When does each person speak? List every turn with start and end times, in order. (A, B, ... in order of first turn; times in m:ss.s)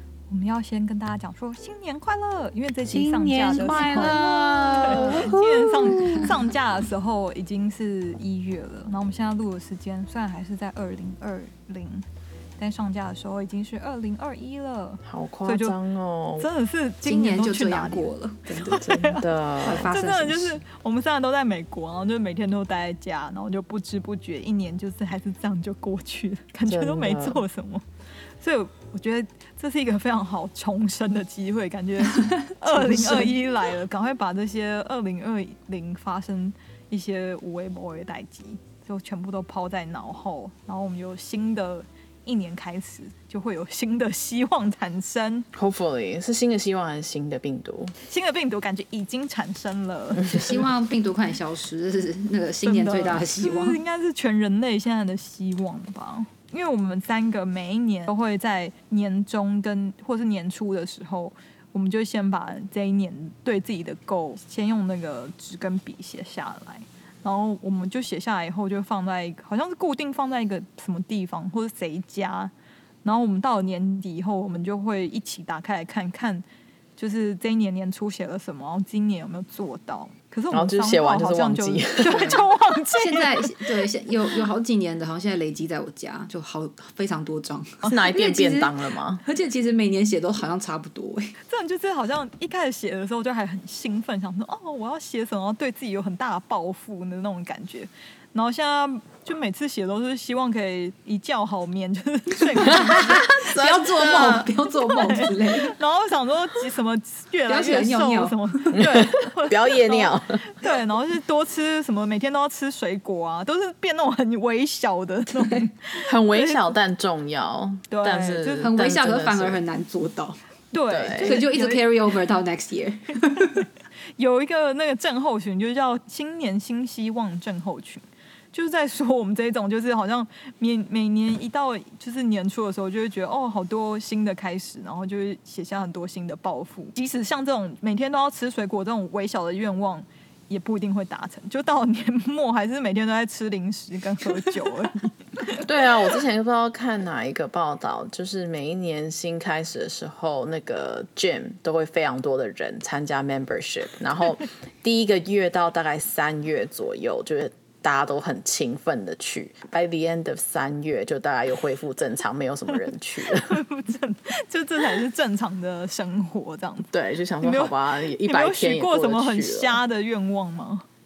0:00.3-0:12.0 A
0:02.9-0:06.3 B
0:03.8-0:04.2 C
0:12.6-0:15.8 A
0:15.0-0:16.5 B
0:16.4-0:27.8 A
0:17.0-0:18.9 C
0:18.6-0:19.9 B
0:19.6-0:20.6 C
0:26.7-0:27.4 B
0:28.4-0:45.5 A
0:32.2-0:33.3 C
0:45.5-0:47.9 B
0:48.0-0:50.4 A
0:50.2-0:53.8 C
0:52.6-1:12.5 A
1:13.0-1:16.4 A
1:17.0-1:23.7 A
1:20.5-1:22.4 B
1:22.0-1:31.4 C
1:27.8-1:29.2 B
1:31.4-1:56.6 A
1:42.6-1:45.8 C
1:47.5-1:48.5 C
1:48.8-1:50.4 B
1:56.0-1:59.6 B
1:57.9-1:58.7 A
1:58.6-2:00.4 C
2:00.7-2:01.9 A
2:00.9-2:01.4 B
2:01.2-2:03.7 C
2:03.3-2:03.6 A
2:04.2-2:25.6 A
2:25.5-2:43.6 B
2:43.2-2:50.8 A
2:46.9-2:49.8 B